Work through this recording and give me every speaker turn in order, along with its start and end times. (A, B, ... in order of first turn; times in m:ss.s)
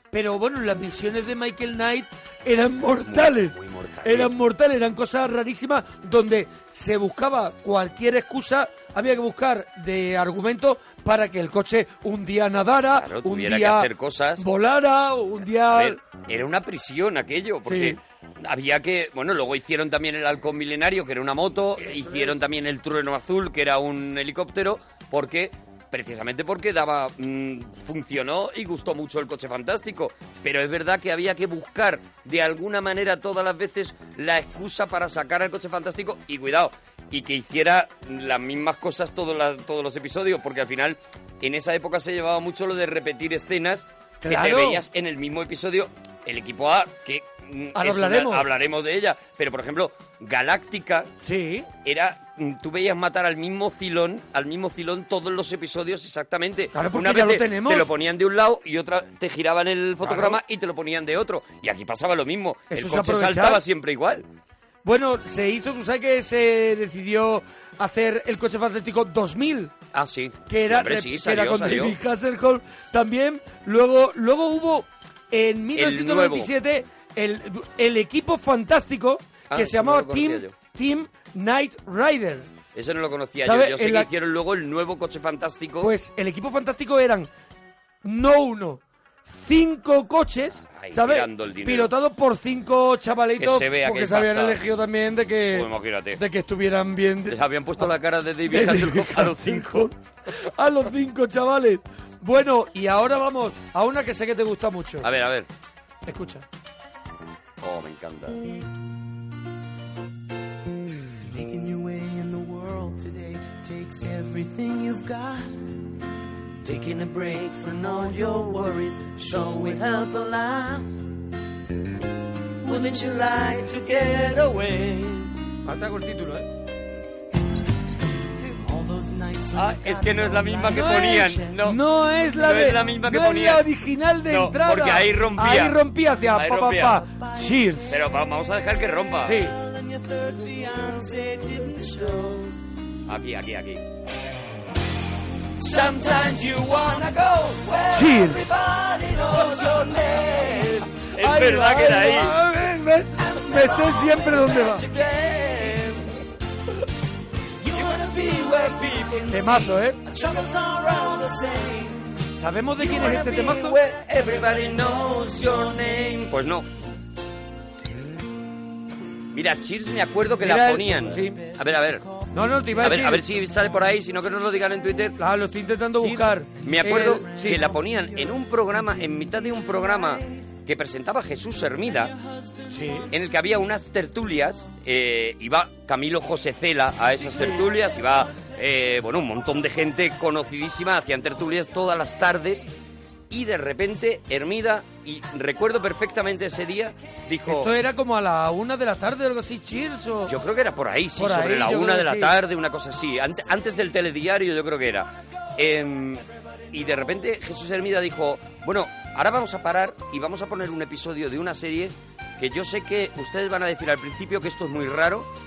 0:00.1-0:16.0 A
0:03.0-0:04.3 B
0:12.9-0:14.4 B
0:15.7-0:51.1 B
0:17.6-0:18.0 A
0:21.8-0:22.4 A
0:44.2-0:44.8 A
0:47.7-0:48.5 A
0:51.2-0:51.7 A
0:51.8-1:04.2 B
0:56.7-0:57.9 A
1:00.0-1:00.4 A
1:02.7-1:03.6 A
1:04.8-1:09.7 A
1:09.9-1:11.9 B
1:10.5-1:22.5 A
1:15.7-1:16.5 B
1:19.5-1:20.5 B
1:22.7-1:25.9 B
1:23.4-1:24.1 A
1:25.8-1:27.3 A
1:28.0-1:28.8 A
1:29.3-1:37.9 A
1:30.6-1:31.9 B
1:33.4-1:34.6 B
1:35.5-1:36.2 B
1:37.3-1:39.9 B
1:38.5-1:45.0 A
1:45.0-1:45.5 B
1:46.1-1:46.4 A
1:47.6-1:48.4 B
1:51.2-1:55.6 C
1:56.6-2:00.8 C
1:59.3-2:00.2 B
2:02.7-2:05.3 B
2:02.7-2:04.1 C
2:05.6-2:06.5 A
2:08.6-2:11.5 C
2:09.5-2:13.6 B
2:10.7-2:18.0 A
2:14.3-2:15.8 B
2:16.3-2:17.0 B
2:17.0-2:17.7 C
2:17.9-2:19.4 B
2:19.2-2:19.5 A
2:19.5-2:22.5 C
2:23.1-2:23.8 B
2:25.6-2:26.6 C
2:25.7-2:32.3 B
2:27.9-2:28.4 A
2:28.5-2:30.7 C
2:31.2-2:34.9 A
2:33.3-2:34.8 C
2:34.6-2:36.1 B
2:37.7-2:39.0 C
2:37.7-2:39.6 B
2:39.3-2:40.0 A
2:40.0-2:42.1 C
2:42.4-2:43.8 A
2:42.8-2:46.7 B
2:49.3-2:52.0 B
2:50.4-2:51.4 A
2:52.3-2:53.2 A
2:52.8-2:55.2 B
2:55.2-2:57.6 A
2:56.0-3:02.1 B
3:02.7-3:03.1 A
3:03.1-3:12.7 B
3:07.2-3:07.6 A
3:13.3-3:17.7 B
3:17.4-3:20.3 A
3:20.3-3:35.3 B
3:21.2-3:22.4 A